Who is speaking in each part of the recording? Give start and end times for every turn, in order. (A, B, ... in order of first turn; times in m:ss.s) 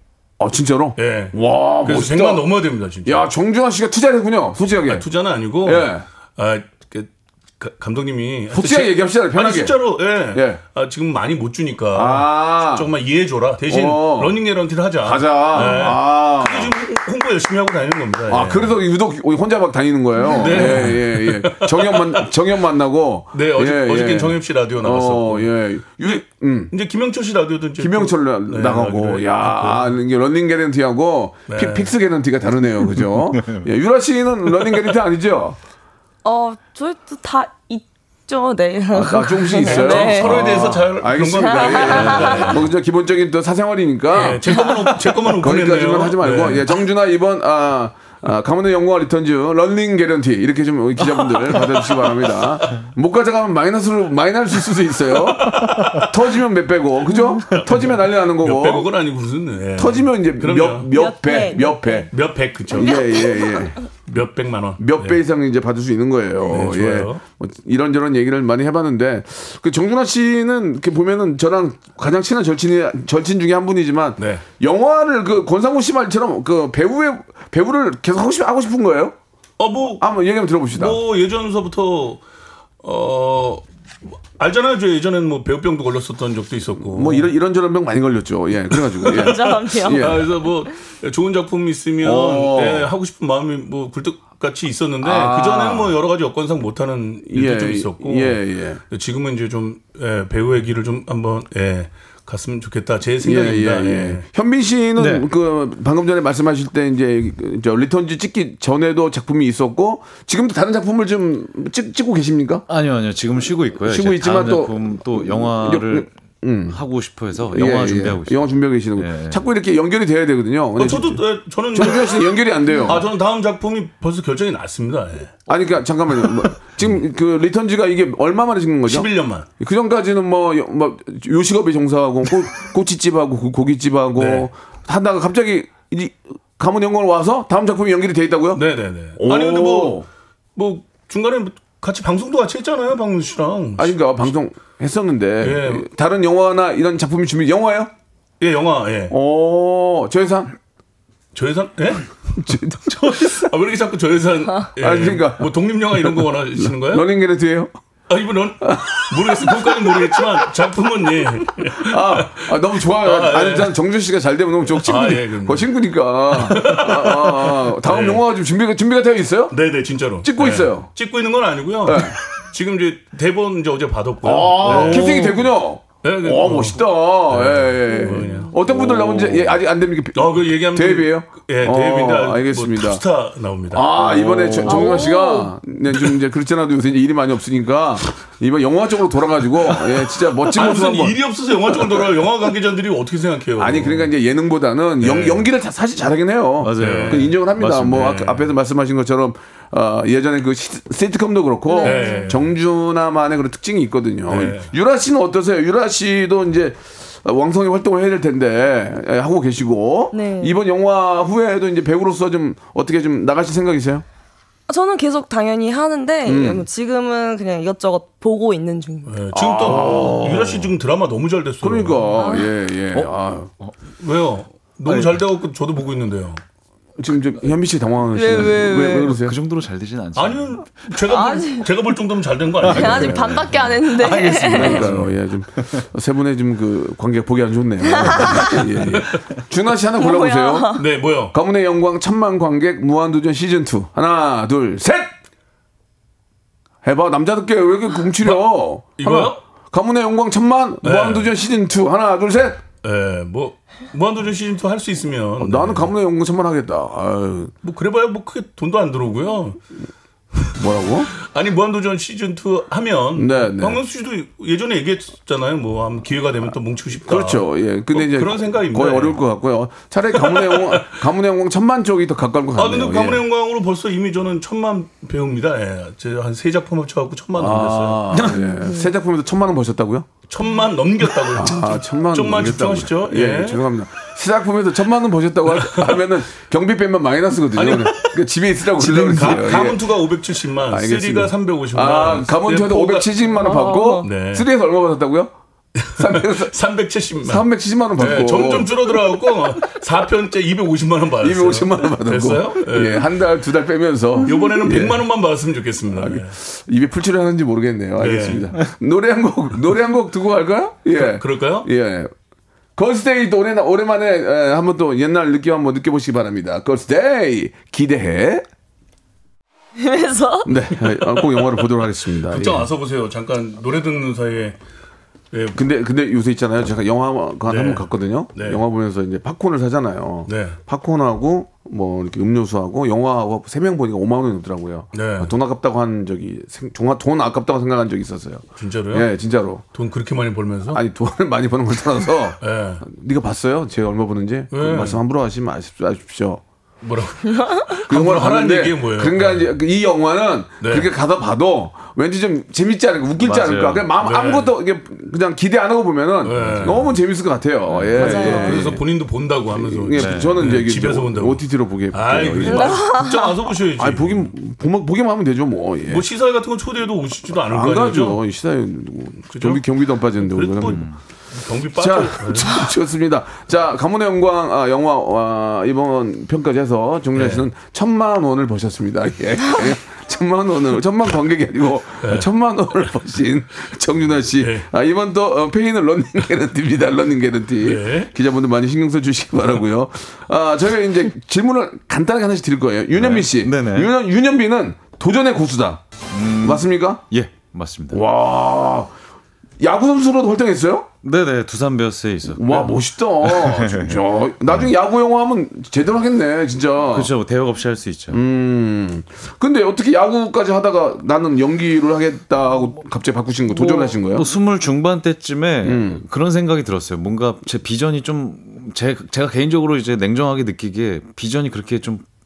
0:00.4-0:02.4 A
0:01.0-0:03.3 B
0:03.0-0:05.1 A
0:04.9-0:18.8 B
0:05.6-0:06.0 A
0:08.5-0:09.8 A
0:10.3-0:10.6 A
0:11.9-0:12.9 A
0:13.7-0:14.4 A
0:15.0-0:16.8 A
0:18.3-0:26.7 A
0:20.3-0:22.3 B
0:23.3-0:25.5 B
0:26.0-0:29.9 B
0:27.8-0:35.6 A
0:31.5-0:31.9 B
0:33.3-0:33.6 C
0:36.2-0:40.5 D
0:38.9-0:58.9 A
0:39.6-0:42.7 B
0:41.4-0:42.5 D
0:42.0-0:42.5 C
0:44.1-0:46.8 B
0:55.2-0:56.1 B
0:57.5-1:00.9 B
0:59.8-1:02.1 A
1:00.9-1:02.1 D
1:02.1-1:03.2 B
1:02.7-1:03.8 A
1:02.8-1:03.7 D
1:04.1-1:05.2 B
1:04.8-1:19.2 A
1:06.5-1:07.2 B
1:14.2-1:14.4 B
1:19.6-1:20.0 B
1:20.0-1:21.0 A
1:20.7-1:22.2 B
1:22.8-1:23.6 B
1:24.4-1:27.3 B
1:26.8-1:30.3 A
1:28.8-1:44.2 B
1:29.0-1:30.2 D
1:32.0-1:32.9 A
1:35.0-1:35.9 A
1:37.3-1:38.8 A
1:43.2-1:52.6 A
1:45.0-1:45.3 C
1:52.7-1:56.1 C
1:53.8-1:56.8 A
1:56.7-1:59.4 C
1:57.5-2:03.0 A
2:00.8-2:02.3 B
2:02.8-2:05.4 B
2:05.5-2:09.1 A
2:08.9-2:09.5 B
2:09.6-2:18.6 A
2:14.2-2:14.5 B
2:18.5-2:20.0 B
2:19.2-2:20.0 A
2:20.6-2:24.0 B
2:23.8-2:27.9 A
2:25.4-2:25.9 B
2:28.4-2:29.2 B
2:29.1-2:30.5 A
2:31.3-2:37.1 B
2:32.4-2:33.5 A
2:34.7-2:37.7 A
2:38.1-2:43.8 B
2:38.6-2:40.4 A
2:41.4-2:49.6 A
2:44.8-2:45.7 B
2:46.3-2:48.2 B
2:49.5-2:55.5 B
2:50.2-2:50.9 A
2:51.8-2:52.2 A
2:54.2-3:03.0 A
2:56.0-2:59.5 B
2:57.9-2:58.5 D
3:00.1-3:04.0 B
3:03.7-3:11.2 A
3:04.0-3:04.8 C
3:04.6-3:05.5 D
3:09.8-3:14.1 B
3:13.6-3:34.0 A
3:15.0-3:15.5 B
3:16.6-3:18.4 C
3:16.8-3:17.3 B
3:21.7-3:22.3 D
3:21.8-3:22.5 B
3:24.3-3:24.7 B
3:30.1-3:30.6 D
3:34.7-3:39.3 D
3:36.2-3:36.6 A
3:39.0-3:42.0 B
3:39.3-3:40.7 A
3:41.6-3:43.5 A
3:42.2-3:42.5 D
3:42.9-3:43.7 C
3:44.0-3:46.4 B
3:44.9-3:45.1 C
3:47.0-3:49.4 A
3:48.1-3:49.1 D
3:48.3-3:50.7 C
3:50.2-3:53.4 B
3:51.0-3:51.7 D
3:52.6-3:53.8 C
3:52.7-3:54.8 D
3:52.8-4:05.1 A
3:54.2-3:55.1 B
3:57.9-3:58.6 D
3:58.8-3:59.2 B
4:00.0-4:00.8 D
4:00.7-4:01.3 B
4:06.8-4:12.6 A
4:09.0-4:09.4 B
4:10.8-4:11.3 B
4:12.8-4:15.9 B
4:15.4-4:17.5 A
4:17.6-4:19.6 B
4:20.5-4:21.1 A
4:21.1-4:29.2 B
4:23.1-4:23.8 A
4:27.0-4:33.2 A
4:30.1-4:31.0 B
4:32.6-4:38.2 B
4:37.4-4:38.4 C
4:38.0-4:40.1 A
4:38.3-4:38.9 D
4:40.3-4:43.6 B
4:41.3-4:50.0 A
4:45.5-4:46.1 B
4:47.5-4:48.2 B
4:48.8-4:53.1 B
4:50.7-4:55.3 A
4:53.4-4:54.1 D
4:54.0-4:54.5 B
4:55.8-5:03.3 B
4:56.0-4:56.5 A
4:57.2-4:58.9 A
5:01.2-5:05.1 A
5:04.2-5:06.3 B
5:05.9-5:12.1 A
5:08.0-5:08.5 B
5:10.9-5:11.7 B
5:12.8-5:18.4 A
5:19.8-5:20.5 D
5:20.4-5:22.7 A
5:20.8-5:21.4 B
5:22.3-5:24.6 B
5:25.3-5:25.6 B
5:25.5-5:39.6 A
5:27.5-5:28.6 B
5:30.3-5:30.6 B
5:34.9-5:35.3 B
5:38.6-5:39.1 B
5:39.7-5:40.8 B
5:40.7-5:46.4 A
5:42.4-5:42.8 B
5:44.5-5:45.0 B
5:46.8-5:49.5 B
5:47.9-5:58.8 A
5:50.6-5:50.9 B
5:53.2-5:53.9 C
5:54.0-5:54.5 B
5:56.2-5:57.0 B
5:56.4-5:56.9 C
5:57.7-5:58.4 C
5:57.9-6:04.3 B
5:58.0-5:58.6 D
5:59.5-6:02.9 A
6:00.0-6:00.6 C
6:02.5-6:03.3 D
6:03.8-6:06.1 A
6:05.9-6:08.2 B
6:07.5-6:10.8 A
6:09.3-6:09.6 B
6:10.2-6:12.7 B
6:10.6-6:10.9 C
6:11.8-6:35.8 A
6:17.1-6:17.5 B
6:22.0-6:22.3 B
6:24.4-6:24.7 B
6:27.6-6:28.1 B
6:32.9-6:33.9 C
6:36.1-6:38.0 C
6:36.4-6:37.0 A
6:37.9-6:38.9 A
6:39.6-6:40.9 A
6:41.0-6:44.7 C
6:42.3-6:47.1 A
6:46.9-6:48.2 C
6:48.1-6:54.3 A
6:53.5-7:02.0 C
6:55.6-6:56.0 A